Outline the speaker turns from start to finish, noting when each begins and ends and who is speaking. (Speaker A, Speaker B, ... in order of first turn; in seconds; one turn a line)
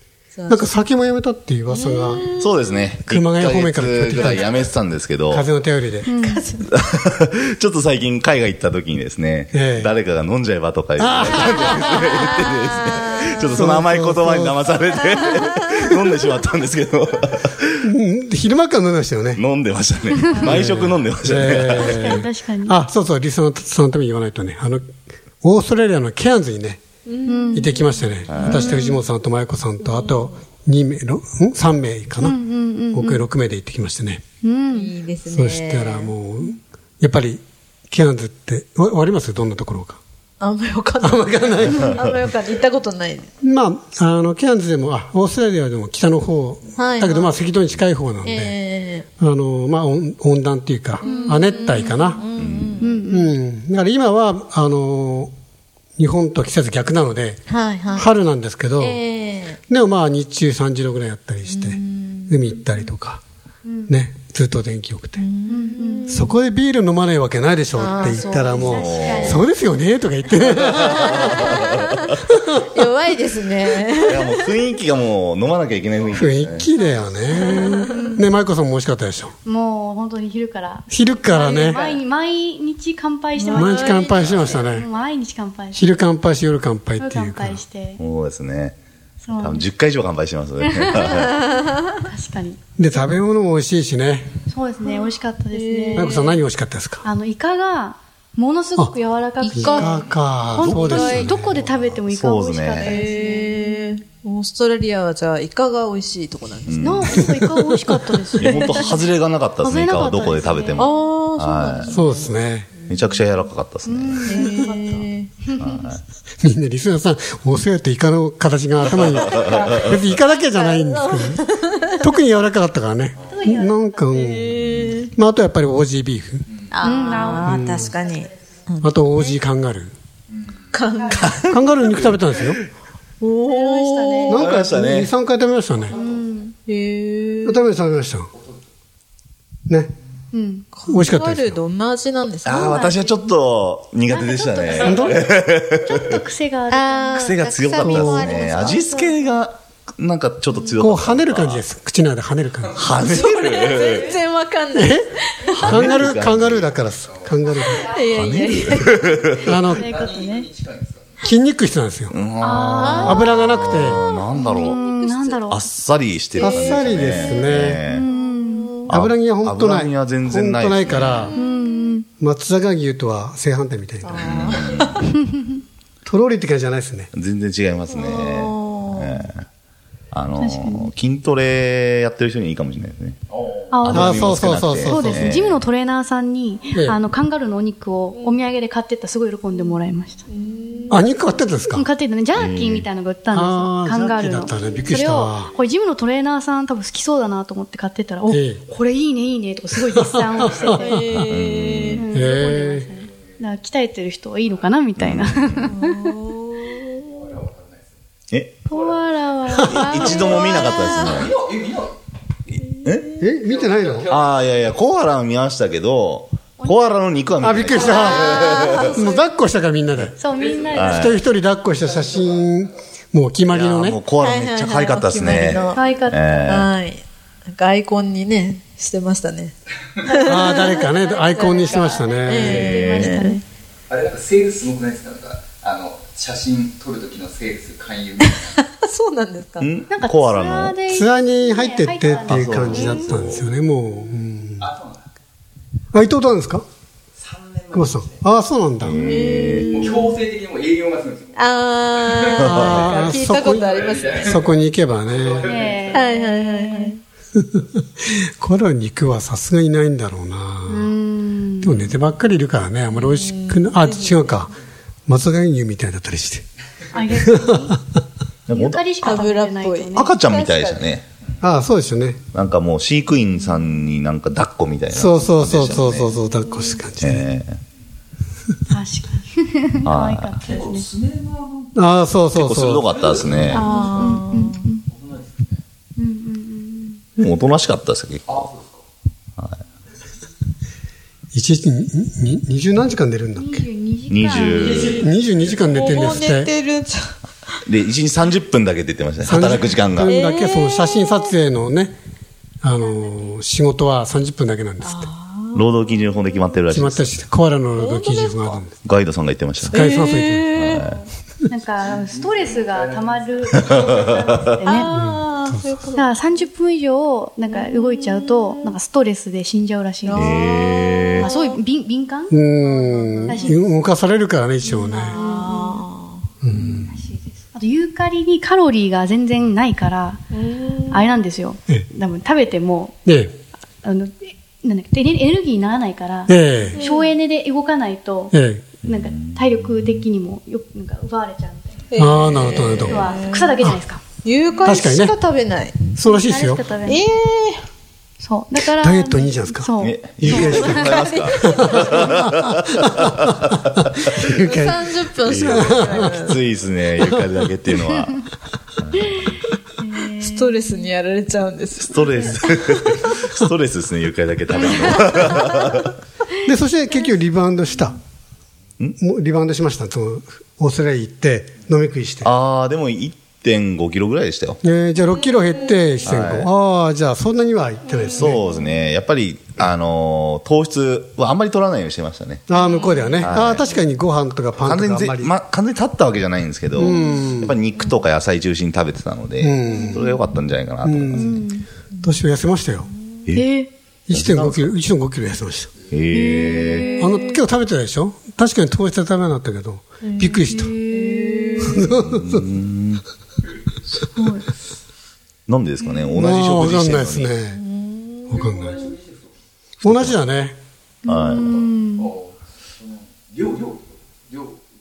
Speaker A: 0.3-0.7
Speaker B: 0.5-2.3
Speaker A: 1.7-2.5
Speaker C: 2.4-5.5
Speaker B: 3.1-4.5
Speaker B: 5.3-6.1
Speaker D: 6.1-6.5
Speaker A: 6.1-6.9
Speaker C: 6.7-17.8
Speaker B: 9.5-9.9
Speaker B: 11.0-12.2
Speaker A: 11.8-13.8
Speaker B: 13.5-14.6
Speaker A: 15.0-16.0
Speaker B: 17.8-19.4
Speaker C: 19.3-22.2
Speaker D: 20.3-20.6
Speaker B: 20.4-24.9
Speaker D: 21.4-22.8
Speaker B: 25.4-26.8
Speaker A: 27.1-28.6
Speaker D: 27.3-27.7
Speaker B: 27.5-32.4
Speaker C: 28.3-28.6
Speaker D: 28.4-29.1
Speaker A: 29.8-30.4
Speaker D: 32.2-33.3
Speaker B: 32.9-34.2
Speaker D: 34.4-34.9
Speaker A: 34.7-36.1
Speaker B: 35.3-40.0
Speaker A: 40.4-43.3
Speaker B: 41.0-42.0
Speaker B: 43.4-48.6
Speaker A: 46.8-47.3
Speaker A: 48.2-49.1
Speaker B: 49.2-52.2
Speaker D: 51.0-52.2
Speaker A: 51.0-53.0
Speaker C: 52.3-52.8
Speaker D: 52.8-53.3
Speaker B: 53.0-55.3
Speaker B: 56.0-57.4
Speaker A: 57.5-58.1
Speaker B: 57.9-59.0
Speaker A: 58.8-59.6
Speaker B: 59.7-63.2
Speaker A: 61.5-62.6
Speaker D: 63.6-63.9
Speaker B: 63.9-65.2
Speaker A: 65.2-66.4
Speaker D: 65.5-66.1
Speaker B: 66.1-71.7
Speaker A: 67.7-69.3
Speaker D: 67.8-69.5
Speaker C: 68.7-69.5
Speaker C: 70.6-71.8
Speaker A: 70.9-72.2
Speaker B: 72.3-72.6
Speaker A: 72.7-74.5
Speaker C: 74.0-76.7
Speaker B: 76.1-79.3
Speaker D: 76.7-78.3
Speaker A: 77.4-78.1
Speaker D: 79.5-86.0
Speaker B: 80.9-81.8
Speaker A: 81.4-81.7
Speaker A: 83.4-84.5
Speaker B: 83.5-84.9
Speaker C: 84.0-84.7
Speaker B: 85.8-87.6
Speaker D: 87.0-88.0
Speaker C: 88.0-88.8
Speaker D: 89.2-89.7
Speaker C: 89.4-91.4
Speaker D: 90.6-91.2
Speaker D: 92.0-92.6
Speaker B: 92.8-94.3
Speaker D: 94.5-96.2
Speaker A: 95.5-96.4
Speaker B: 96.0-97.0
Speaker D: 97.0-100.0
Speaker A: 99.4-101.4
Speaker B: 99.5-101.7
Speaker D: 100.5-104.0
Speaker C: 102.1-103.0
Speaker A: 102.8-107.2
Speaker C: 106.7-107.0
Speaker D: 106.8-110.9
Speaker B: 107.0-108.0
Speaker C: 108.4-112.0
Speaker A: 110.8-112.3
Speaker B: 111.9-112.7
Speaker C: 112.9-114.4
Speaker D: 113.9-115.7
Speaker A: 114.3-115.3
Speaker C: 115.5-116.0
Speaker B: 116.4-121.5
Speaker C: 119.4-119.9
Speaker A: 120.5-122.1
Speaker B: 122.0-126.5
Speaker D: 123.3-124.5
Speaker A: 124.2-125.1
Speaker A: 126.7-129.1
Speaker D: 126.8-128.3
Speaker B: 127.4-127.9
Speaker B: 128.8-129.9
Speaker A: 130.7-131.4
Speaker C: 131.1-132.6
Speaker B: 131.5-132.6
Speaker A: 133.2-134.4
Speaker D: 133.4-134.4
Speaker B: 134.3-136.0
Speaker C: 134.3-135.1
Speaker D: 135.9-136.6
Speaker A: 136.7-137.6
Speaker B: 137.4-138.3
Speaker D: 140.3-140.7
Speaker A: 140.8-142.9
Speaker B: 140.9-141.6
Speaker C: 142.4-146.2
Speaker D: 142.5-143.4
Speaker D: 144.1-147.5
Speaker B: 144.8-145.1
Speaker A: 146.7-148.9
Speaker C: 147.2-151.7
Speaker B: 147.8-148.4
Speaker D: 148.3-149.2
Speaker A: 150.5-150.8
Speaker B: 150.8-152.9
Speaker C: 152.8-154.2
Speaker A: 153.1-155.7
Speaker B: 154.7-157.9
Speaker C: 155.6-156.7
Speaker A: 157.7-159.2
Speaker C: 158.1-159.5
Speaker B: 159.4-159.9
Speaker D: 159.7-160.5
Speaker E: 160.0-160.8
Speaker B: 161.2-162.2
Speaker C: 162.1-164.8
Speaker D: 162.4-163.3
Speaker A: 162.8-163.4
Speaker B: 163.0-164.0
Speaker A: 164.1-165.4
Speaker D: 164.3-165.7
Speaker C: 165.5-168.1
Speaker B: 166.4-167.8
Speaker A: 166.4-168.9
Speaker D: 167.8-168.8
Speaker C: 168.8-171.3
Speaker B: 168.9-171.3
Speaker A: 171.1-171.9
Speaker D: 171.2-172.1
Speaker B: 172.2-174.5
Speaker A: 174.0-175.1
Speaker C: 174.2-175.0
Speaker D: 175.1-175.6
Speaker B: 176.1-177.1
Speaker C: 177.1-179.5
Speaker A: 177.9-179.2
Speaker C: 180.1-183.2
Speaker D: 180.4-180.9
Speaker D: 183.7-190.3
Speaker C: 183.8-185.6
Speaker B: 183.9-185.3
Speaker B: 186.7-187.0
Speaker A: 188.1-188.4
Speaker A: 190.3-191.0
Speaker B: 190.9-191.9
Speaker D: 191.7-201.1
Speaker C: 192.3-192.9
Speaker B: 193.3-195.5
Speaker B: 198.3-198.6
Speaker B: 199.9-201.2
Speaker A: 200.7-202.1
Speaker C: 201.1-202.0
Speaker D: 201.9-206.2
Speaker B: 202.1-202.9
Speaker C: 205.0-205.7
Speaker A: 205.7-207.3
Speaker C: 208.3-208.7
Speaker D: 208.7-210.7
Speaker B: 209.5-209.8
Speaker C: 209.7-211.4
Speaker A: 210.0-211.3
Speaker E: 211.1-211.7
Speaker A: 212.8-213.2
Speaker C: 212.8-213.2
Speaker B: 213.2-214.2
Speaker C: 214.1-219.1
Speaker D: 216.6-216.9
Speaker B: 217.4-220.2
Speaker D: 217.8-219.2
Speaker A: 217.9-219.0
Speaker D: 220.2-221.1
Speaker B: 220.8-224.0
Speaker C: 220.8-221.2
Speaker C: 223.5-226.7
Speaker A: 224.2-225.9
Speaker D: 225.7-226.6
Speaker A: 226.5-233.4
Speaker B: 230.2-232.8
Speaker D: 231.4-233.4
Speaker C: 232.3-233.1
Speaker E: 233.9-238.2
Speaker A: 238.2-239.7
Speaker C: 239.6-240.8
Speaker D: 239.9-243.3
Speaker B: 240.9-244.7
Speaker C: 242.3-243.4
Speaker B: 245.9-246.7
Speaker B: 247.7-249.0
Speaker C: 248.8-249.7
Speaker A: 249.0-250.2
Speaker E: 249.8-251.3
Speaker A: 251.3-254.3
Speaker C: 252.4-252.9
Speaker B: 252.4-255.5
Speaker D: 255.4-256.9
Speaker A: 255.9-257.0
Speaker B: 257.4-260.9
Speaker D: 260.7-261.9
Speaker B: 261.6-264.5
Speaker A: 262.9-264.3
Speaker B: 265.1-266.4
Speaker D: 266.9-267.8
Speaker B: 267.2-267.7
Speaker C: 268.5-268.8
Speaker D: 268.5-270.2
Speaker A: 269.0-270.9
Speaker C: 269.9-271.0
Speaker B: 271.4-272.2
Speaker C: 272.3-276.1
Speaker B: 274.9-277.3
Speaker C: 277.0-277.6
Speaker D: 278.7-280.9
Speaker C: 279.9-280.4
Speaker E: 280.9-281.3
Speaker B: 281.8-283.0
Speaker C: 282.3-283.6
Speaker D: 283.4-284.8
Speaker A: 283.5-284.7
Speaker D: 286.0-287.0
Speaker C: 287.2-288.4
Speaker B: 291.3-293.6
Speaker D: 293.4-294.9
Speaker C: 294.1-295.1
Speaker B: 294.9-296.5
Speaker A: 295.7-297.2
Speaker C: 297.7-300.2
Speaker B: 299.2-302.0
Speaker A: 300.0-301.4
Speaker B: 302.6-305.1
Speaker A: 304.8-306.0
Speaker C: 305.5-307.3
Speaker B: 306.7-308.7
Speaker A: 307.8-308.6
Speaker C: 308.8-309.9
Speaker B: 309.6-310.6
Speaker A: 309.7-311.1
Speaker C: 310.5-311.0
Speaker D: 311.5-315.0
Speaker C: 313.5-313.9
Speaker A: 314.6-316.4
Speaker B: 314.9-315.7
Speaker D: 315.9-320.6
Speaker A: 317.5-318.8
Speaker A: 320.1-321.5
Speaker C: 320.1-321.3
Speaker D: 321.2-322.4
Speaker B: 322.3-325.2
Speaker A: 322.6-323.5
Speaker D: 323.3-323.6
Speaker D: 324.7-325.8
Speaker A: 325.0-326.3
Speaker B: 326.4-326.9
Speaker C: 326.5-326.9
Speaker D: 327.0-330.2
Speaker A: 330.4-331.1
Speaker D: 330.9-333.0
Speaker B: 333.1-333.3
Speaker D: 333.8-341.9
Speaker B: 336.3-336.8
Speaker A: 336.8-337.1
Speaker B: 338.3-338.8
Speaker C: 338.9-340.0
Speaker A: 341.9-343.6
Speaker B: 342.0-343.8
Speaker D: 342.9-344.7
Speaker A: 344.2-345.9
Speaker B: 344.6-345.1
Speaker B: 346.0-346.6
Speaker D: 346.0-347.1
Speaker A: 346.9-347.6
Speaker D: 348.2-351.1
Speaker B: 348.8-349.7
Speaker C: 349.8-353.6
Speaker B: 350.2-356.2
Speaker A: 350.8-352.1
Speaker A: 354.2-356.4
Speaker C: 355.3-358.2
Speaker B: 357.0-357.3
Speaker D: 360.0-360.9
Speaker A: 360.0-363.2
Speaker C: 361.8-366.0
Speaker A: 364.6-365.2
Speaker B: 366.4-368.0
Speaker B: 369.0-372.3
Speaker C: 372.2-374.6
Speaker B: 374.6-378.4
Speaker C: 376.1-376.5
Speaker A: 378.0-378.6
Speaker C: 378.1-382.4
Speaker B: 382.5-385.3
Speaker A: 382.6-383.9
Speaker C: 383.2-383.7
Speaker C: 384.6-391.4
Speaker B: 386.8-387.6
Speaker B: 389.4-390.0
Speaker D: 389.8-390.2
Speaker B: 390.8-391.5
Speaker D: 391.3-391.7
Speaker B: 392.0-392.9
Speaker D: 393.3-393.7
Speaker B: 394.1-395.7
Speaker C: 394.1-394.7
Speaker C: 395.9-396.9
Speaker D: 396.1-397.0
Speaker A: 396.2-397.4
Speaker B: 397.0-400.7
Speaker A: 400.0-401.9
Speaker D: 400.5-401.8
Speaker B: 401.6-402.4
Speaker C: 401.9-403.0
Speaker D: 404.1-404.5
Speaker C: 405.5-407.3
Speaker B: 406.1-407.6
Speaker A: 407.5-408.8
Speaker B: 408.3-408.9
Speaker C: 409.8-410.2
Speaker B: 409.8-410.6
Speaker D: 411.1-412.1
Speaker C: 411.1-411.6